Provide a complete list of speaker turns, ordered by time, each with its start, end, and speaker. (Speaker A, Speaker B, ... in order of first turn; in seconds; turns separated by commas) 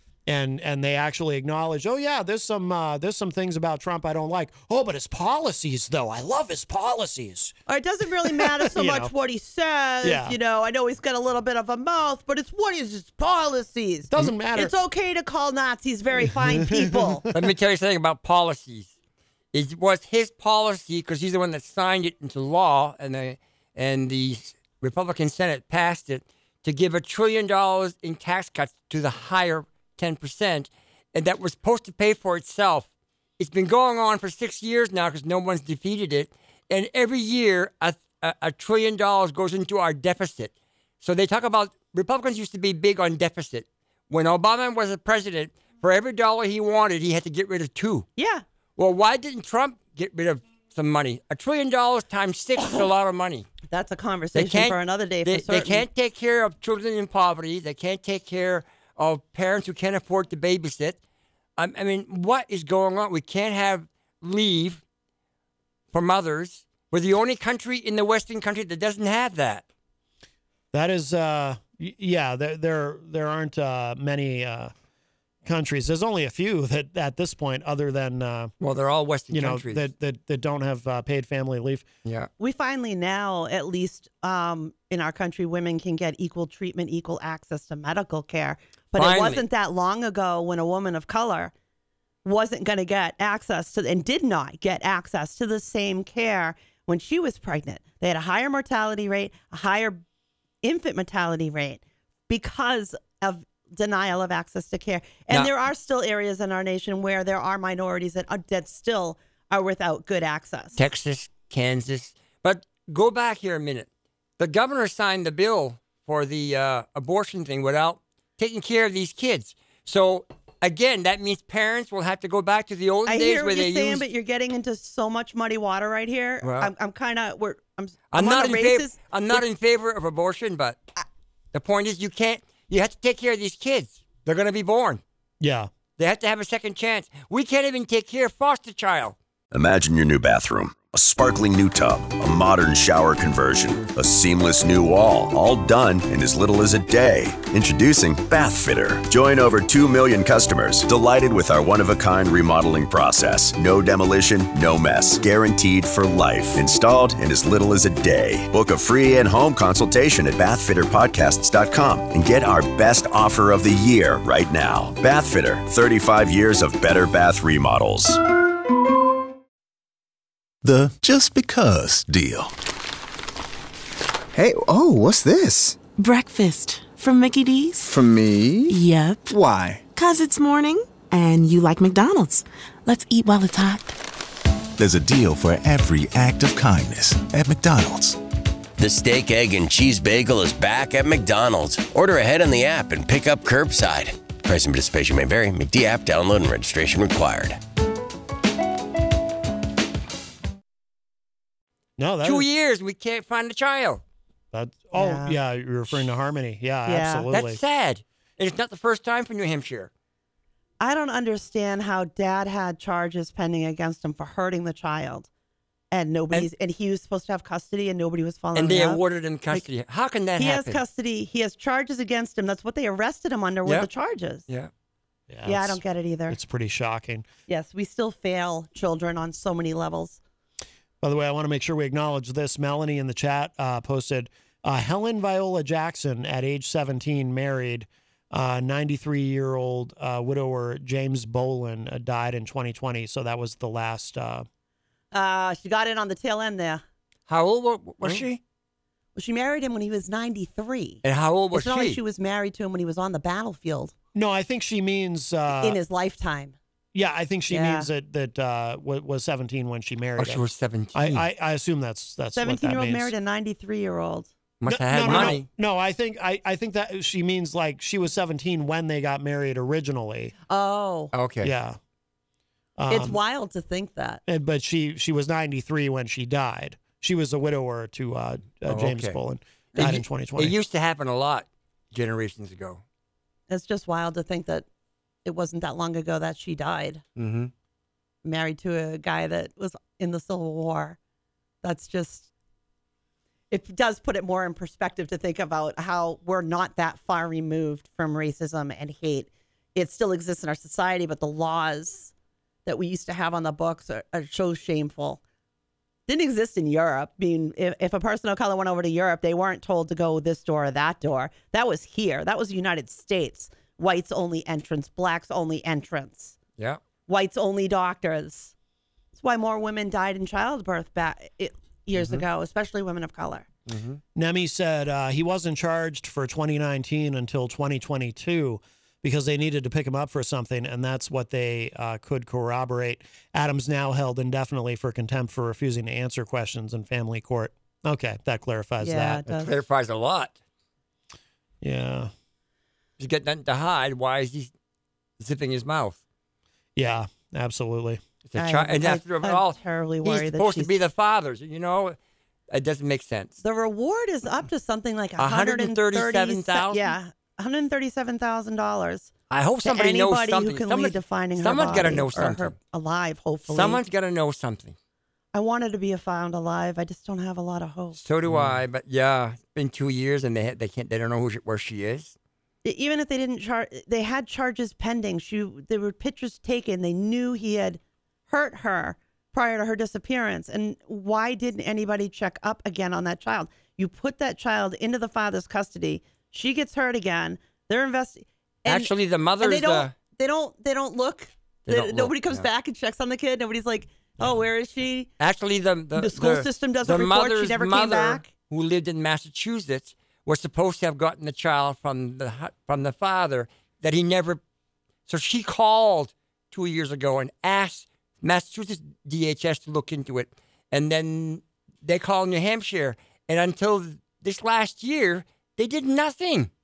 Speaker A: 0.3-7.5, Speaker B: 7.7-17.3, Speaker A: 8.2-9.1, Speaker A: 10.0-10.4, Speaker A: 14.1-14.7, Speaker A: 16.2-17.5, Speaker C: 17.3-18.9, Speaker C: 19.5-48.1, Speaker B: 48.2-48.4, Speaker C: 48.8-53.5, Speaker B: 53.7-55.9, Speaker C: 54.4-61.0, Speaker C: 61.6-64.8, Speaker C: 65.9-69.7, Speaker A: 70.7-74.7, Speaker A: 75.5-78.5, Speaker C: 78.6-79.9, Speaker A: 79.3-81.9, Speaker C: 82.0-82.3, Speaker B: 82.4-91.5, Speaker C: 89.0-89.4, Speaker B: 92.2-100.0, Speaker B: 100.6-110.8, Speaker C: 110.8-113.9, Speaker C: 114.4-124.1, Speaker B: 123.1-129.4, Speaker C: 126.4-126.7, Speaker C: 128.1-130.8, Speaker C: 131.5-135.0, Speaker A: 135.4-135.7, Speaker C: 136.0-139.2, Speaker D: 139.5-168.2, Speaker E: 170.6-172.5, Speaker F: 174.3-175.8, Speaker G: 176.0-177.9, Speaker F: 177.9-178.6, Speaker G: 178.7-179.3, Speaker G: 179.9-184.0, Speaker E: 184.8-188.2, Speaker H: 188.8-197.6, Speaker A: 202.0-202.5, Speaker C: 202.2-204.0, Speaker A: 204.5-207.6, Speaker B: 204.9-205.4, Speaker B: 206.9-207.3, Speaker C: 207.3-209.9, Speaker B: 210.8-215.3, Speaker B: 215.9-219.7, Speaker C: 218.6-220.8, Speaker B: 220.4-224.5, Speaker A: 225.3-227.3, Speaker B: 225.5-226.4, Speaker B: 227.5-230.2, Speaker A: 231.0-244.5, Speaker B: 245.1-246.8, Speaker C: 247.3-248.4, Speaker B: 249.2-253.9, Speaker C: 251.0-252.0, Speaker A: 254.1-255.8, Speaker B: 255.6-256.6, Speaker A: 256.9-260.4, Speaker B: 257.5-257.9, Speaker C: 260.2-261.2, Speaker A: 260.9-263.1, Speaker B: 262.4-264.3, Speaker C: 264.6-265.5, Speaker A: 264.7-270.3, Speaker B: 265.0-265.4, Speaker B: 270.5-271.1, Speaker C: 271.1-271.5, Speaker A: 271.4-271.8, Speaker A: 272.8-273.2, Speaker B: 272.9-274.2, Speaker A: 274.3-280.6, Speaker C: 278.7-279.2, Speaker C: 279.8-282.8, Speaker B: 283.5-284.7, Speaker B: 285.2-287.0, Speaker C: 287.2-287.5, Speaker B: 288.2-291.0, Speaker B: 291.6-292.3, Speaker B: 293.5-302.1, Speaker B: 302.7-305.2, Speaker B: 306.1-316.4, Speaker B: 317.1-318.5, Speaker B: 319.1-323.5, Speaker C: 321.9-322.2, Speaker C: 323.7-324.0, Speaker A: 324.1-339.3, Speaker B: 338.8-339.5, Speaker C: 339.3-340.4, Speaker A: 341.6-342.1, Speaker C: 343.0-344.5, Speaker C: 345.2-346.0, Speaker A: 346.8-348.0, Speaker C: 348.2-352.0, Speaker B: 348.4-350.7, Speaker C: 352.5-353.4, Speaker B: 353.4-363.8, Speaker C: 355.2-356.9, Speaker C: 359.3-362.6, Speaker C: 363.5-364.8, Speaker B: 365.3-368.0, Speaker C: 367.9-372.1, Speaker A: 368.3-368.6, Speaker B: 372.6-395.1, Speaker C: 388.7-389.9, Speaker C: 391.7-392.5, Speaker C: 395.2-404.4, Speaker B: 395.9-398.3, Speaker C: 405.1-416.5